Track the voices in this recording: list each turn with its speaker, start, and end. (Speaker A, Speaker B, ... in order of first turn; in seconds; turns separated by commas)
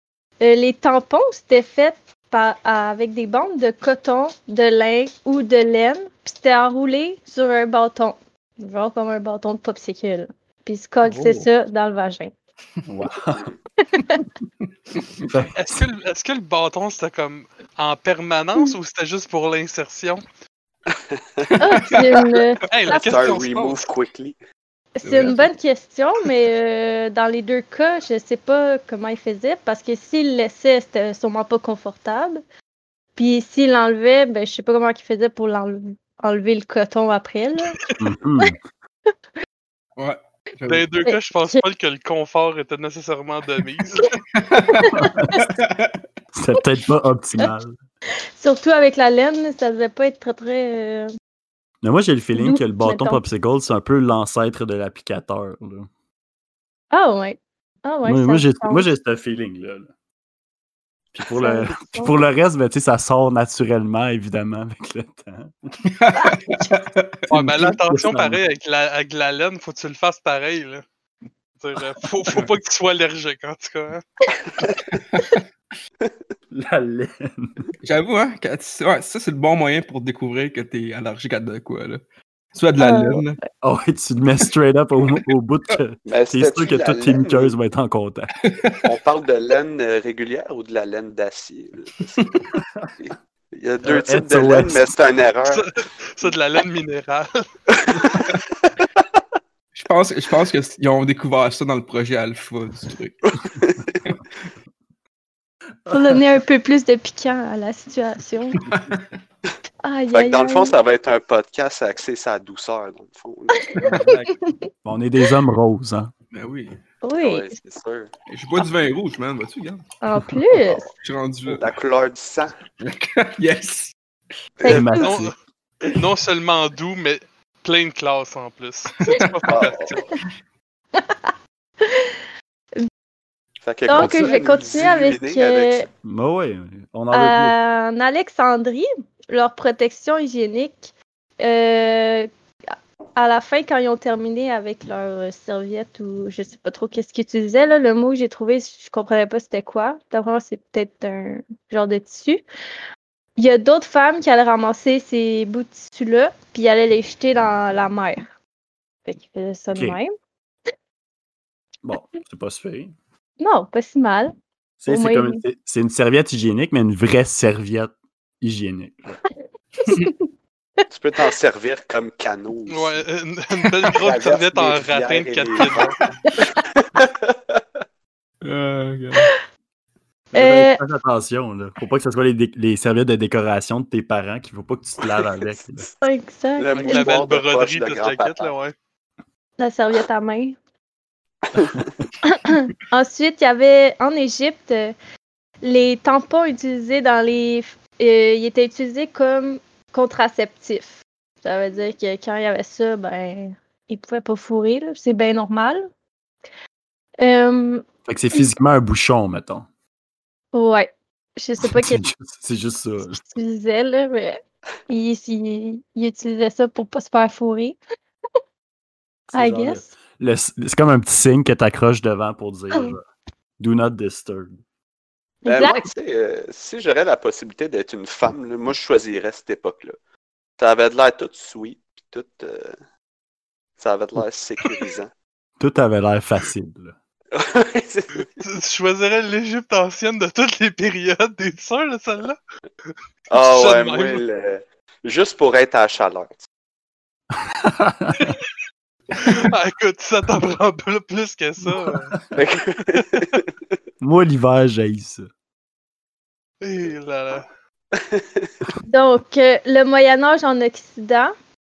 Speaker A: 0.4-12.3, Speaker B: 11.0-11.5, Speaker B: 12.9-13.5, Speaker A: 13.8-14.2, Speaker C: 14.6-15.3, Speaker B: 15.2-15.8, Speaker D: 15.5-20.2, Speaker E: 20.9-21.5, Speaker C: 21.4-23.8, Speaker A: 21.6-23.1, Speaker D: 22.7-23.6, Speaker E: 22.9-24.3, Speaker A: 25.0-32.4, Speaker C: 25.0-25.5, Speaker A: 33.1-37.8, Speaker B: 38.0-38.5, Speaker C: 40.0-40.9, Speaker D: 40.7-44.2, Speaker A: 41.0-41.6, Speaker C: 44.3-46.0, Speaker A: 44.6-45.3, Speaker B: 45.0-45.5, Speaker B: 46.3-47.7, Speaker A: 48.4-51.1, Speaker B: 51.8-55.9, Speaker A: 52.3-53.2, Speaker A: 56.9-58.9, Speaker B: 58.0-59.9, Speaker B: 61.1-65.7, Speaker A: 61.3-62.1, Speaker C: 65.8-67.2, Speaker D: 67.3-70.8, Speaker B: 67.3-68.4, Speaker D: 71.6-74.0, Speaker C: 74.9-75.4, Speaker B: 76.5-77.6, Speaker C: 77.8-82.0, Speaker C: 82.5-83.4, Speaker A: 82.8-83.2, Speaker B: 83.6-88.3, Speaker E: 86.0-87.5, Speaker C: 88.4-88.9, Speaker E: 88.8-92.3, Speaker E: 93.0-95.7, Speaker B: 93.8-94.9, Speaker D: 95.5-97.4, Speaker E: 97.7-99.0, Speaker C: 99.7-103.2, Speaker E: 103.3-104.1, Speaker B: 105.9-106.2, Speaker A: 105.9-108.6, Speaker C: 108.5-109.0, Speaker A: 109.8-110.7, Speaker E: 110.1-113.7, Speaker A: 113.7-114.7, Speaker C: 113.8-114.3, Speaker B: 114.8-116.1, Speaker C: 116.3-116.8, Speaker A: 117.0-117.5, Speaker E: 117.2-118.1, Speaker C: 118.3-120.4, Speaker A: 120.0-120.9, Speaker C: 121.0-121.7, Speaker E: 121.5-122.6, Speaker C: 122.8-123.9, Speaker E: 124.6-124.8, Speaker A: 124.6-125.1, Speaker B: 124.6-125.3, Speaker D: 125.0-125.3, Speaker D: 125.9-130.1, Speaker E: 129.5-130.0, Speaker A: 130.9-132.2, Speaker E: 133.6-135.9, Speaker A: 133.8-135.9, Speaker B: 133.9-134.3, Speaker B: 136.0-137.5, Speaker A: 137.1-142.3, Speaker A: 143.2-152.4, Speaker A: 153.4-158.2, Speaker A: 159.1-160.1, Speaker B: 159.7-160.0, Speaker B: 161.8-162.9, Speaker A: 163.4-164.3, Speaker B: 164.8-169.2, Speaker A: 164.9-165.4, Speaker C: 169.8-170.1, Speaker A: 169.8-170.2, Speaker E: 170.9-173.0, Speaker D: 172.7-176.0, Speaker E: 174.0-177.6, Speaker C: 178.4-179.3, Speaker B: 180.3-185.8, Speaker A: 180.3-180.8, Speaker E: 185.0-185.9, Speaker A: 186.0-187.2, Speaker E: 186.6-188.5, Speaker D: 186.8-188.7, Speaker A: 189.6-190.6, Speaker E: 191.5-191.9, Speaker A: 192.2-194.9, Speaker A: 195.6-205.8, Speaker A: 207.2-207.8, Speaker B: 208.1-209.7, Speaker A: 210.5-212.0, Speaker B: 211.6-213.2, Speaker A: 213.0-217.8, Speaker B: 219.3-223.0, Speaker A: 219.3-219.9, Speaker B: 223.6-224.6, Speaker A: 225.4-225.9, Speaker E: 225.5-229.9, Speaker E: 230.6-232.7, Speaker E: 233.8-235.1, Speaker B: 235.6-236.9, Speaker E: 237.3-238.3, Speaker D: 238.4-242.4, Speaker E: 243.3-246.4, Speaker D: 243.3-244.2, Speaker B: 247.3-248.3, Speaker D: 249.2-252.2, Speaker E: 252.3-253.5, Speaker B: 254.0-255.2, Speaker D: 256.6-257.4, Speaker E: 257.9-258.5, Speaker A: 258.9-261.3